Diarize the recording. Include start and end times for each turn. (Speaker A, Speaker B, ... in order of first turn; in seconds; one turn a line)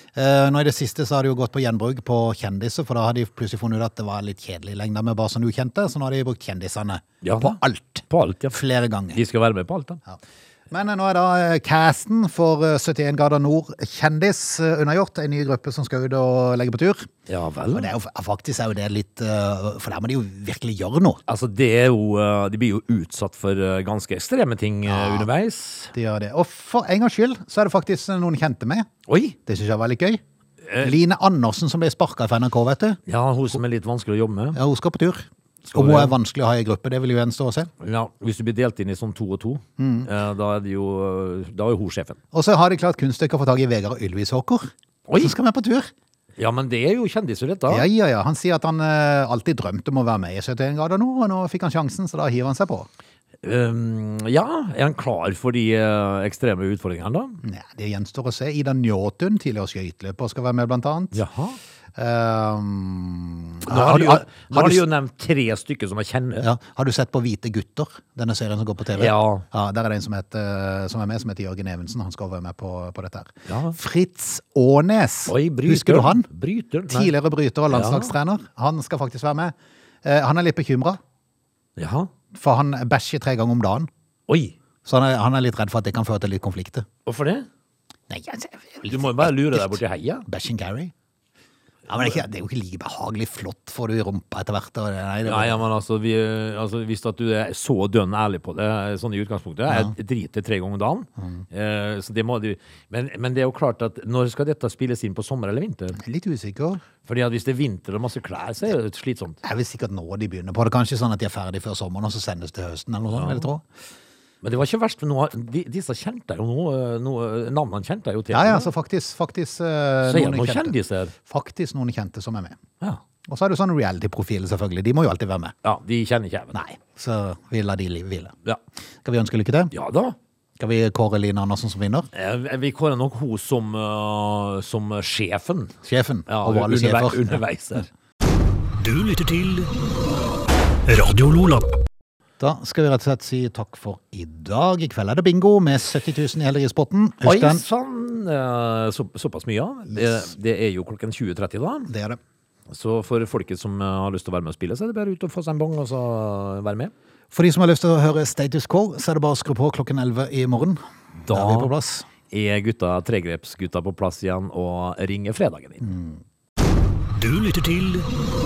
Speaker A: 0.1-9.2
Speaker B: 7.2-7.6
Speaker B: 8.1-8.5
Speaker B: 9.1-10.0
Speaker A: 10.7-17.1
Speaker B: 17.3-17.9
Speaker A: 17.7-21.2
Speaker B: 21.3-25.9
Speaker A: 24.9-25.2
Speaker A: 25.9-28.9
Speaker B: 29.1-29.4
Speaker A: 29.4-30.2
Speaker B: 30.6-30.9
Speaker A: 30.8-33.0
Speaker B: 33.0-34.6
Speaker A: 34.5-37.7
Speaker B: 35.7-36.1
Speaker B: 37.8-42.2
Speaker A: 39.8-40.1
Speaker A: 42.3-45.9
Speaker B: 45.1-45.3
Speaker B: 46.4-47.9
Speaker A: 47.7-52.9
Speaker B: 53.4-57.4
Speaker A: 57.4-61.2
Speaker B: 61.1-61.6
Speaker A: 62.0-64.8
Speaker B: 63.6-66.5
Speaker A: 66.4-76.3
Speaker B: 69.0-69.4
Speaker B: 73.5-73.8
Speaker B: 75.2-77.1
Speaker A: 76.9-81.0
Speaker B: 77.7-78.1
Speaker B: 81.8-82.1
Speaker A: 82.3-83.9
Speaker B: 84.3-84.5
Speaker A: 84.8-86.9
Speaker B: 87.0-87.5
Speaker A: 88.1-90.9
Speaker B: 88.9-90.2
Speaker A: 91.9-95.6
Speaker B: 91.9-92.2
Speaker B: 95.2-106.0
Speaker A: 99.7-99.9
Speaker A: 106.0-106.8
Speaker B: 107.0-109.4
Speaker A: 109.4-113.6
Speaker B: 113.2-113.5
Speaker B: 114.4-118.7
Speaker A: 118.3-122.6
Speaker B: 120.0-121.1
Speaker A: 123.2-125.5
Speaker B: 125.6-126.5
Speaker A: 126.5-128.3
Speaker A: 129.0-129.7
Speaker B: 129.7-130.2
Speaker A: 130.6-132.1
Speaker B: 132.1-135.7
Speaker A: 135.8-137.4
Speaker B: 136.3-137.9
Speaker C: 138.8-139.7
Speaker C: 140.9-141.7
Speaker A: 142.4-147.6
Speaker B: 147.2-151.9
Speaker A: 149.9-150.2
Speaker A: 151.9-152.2
Speaker B: 152.7-156.9
Speaker A: 157.3-162.1
Speaker B: 161.2-161.7
Speaker B: 162.3-165.8
Speaker A: 165.8-166.2
Speaker C: 167.1-168.1